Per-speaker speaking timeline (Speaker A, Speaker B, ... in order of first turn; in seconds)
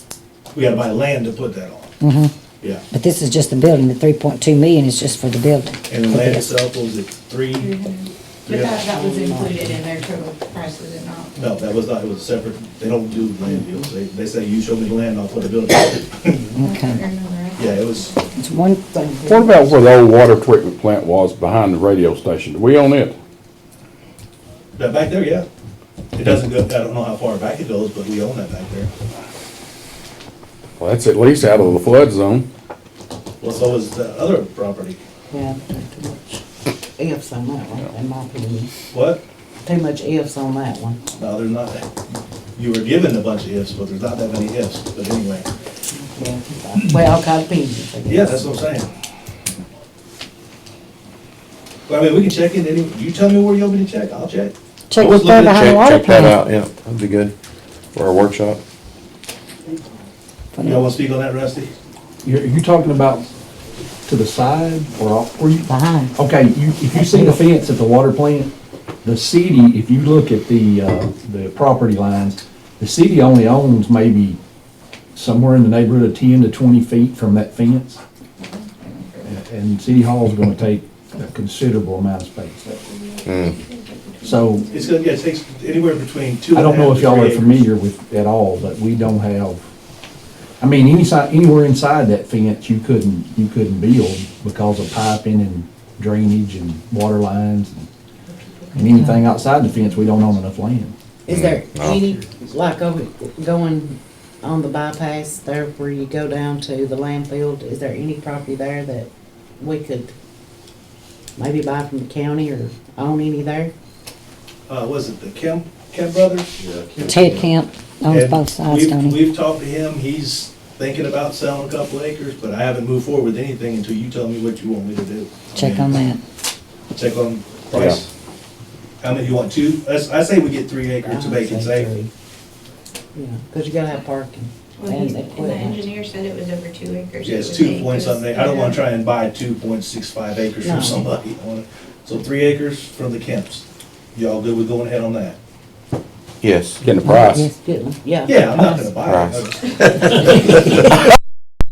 Speaker A: 0.5-1.9, 5.9-7.8, 8.5-8.9, 11.4-16.5, 17.6-18.2, 24.8-25.5, 26.1-28.9, 33.4-35.0, 38.9-39.2, 41.2-41.9, 42.6-45.5, 48.1-48.9, 51.9-55.8, 60.6-61.7, 84.7-87.7, 114.7-116.5, 118.1-126.0, 126.9-128.1, 129.0-131.9, 137.2-145.4, 148.2-150.4
Speaker B: 2.0-2.3, 2.9-6.4, 16.6-17.0, 18.4-18.8, 54.9-56.4, 60.6-60.9, 65.7-66.1, 67.0-67.3, 98.8-99.2, 117.0-119.2, 125.5-126.2
Speaker C: 7.5-11.5, 16.6-18.2, 78.4-79.4, 82.7-85.1, 98.3-100.0, 134.8-138.9
Speaker D: 8.9-9.9, 13.4-13.9, 18.9-19.8, 35.3-36.4, 37.0-38.7, 39.6-41.0, 45.9-48.7, 101.2-110.1, 111.4-113.7, 131.0-132.1, 133.1-135.9, 140.6-141.0, 147.0-149.0
Speaker E: 19.2-23.1, 30.8-32.5, 146.8-147.5
Speaker F: 55.1-57.3, 57.9-58.6, 83.3-83.5, 101.3-102.0, 116.6-117.5, 146.4-146.8, 149.0-150.1
Speaker G: 62.2-63.3, 64.1-68.5, 69.0-74.4, 75.2-78.0, 79.2-82.8, 84.2-84.7, 86.5-89.7, 90.6-97.9, 98.7-100.9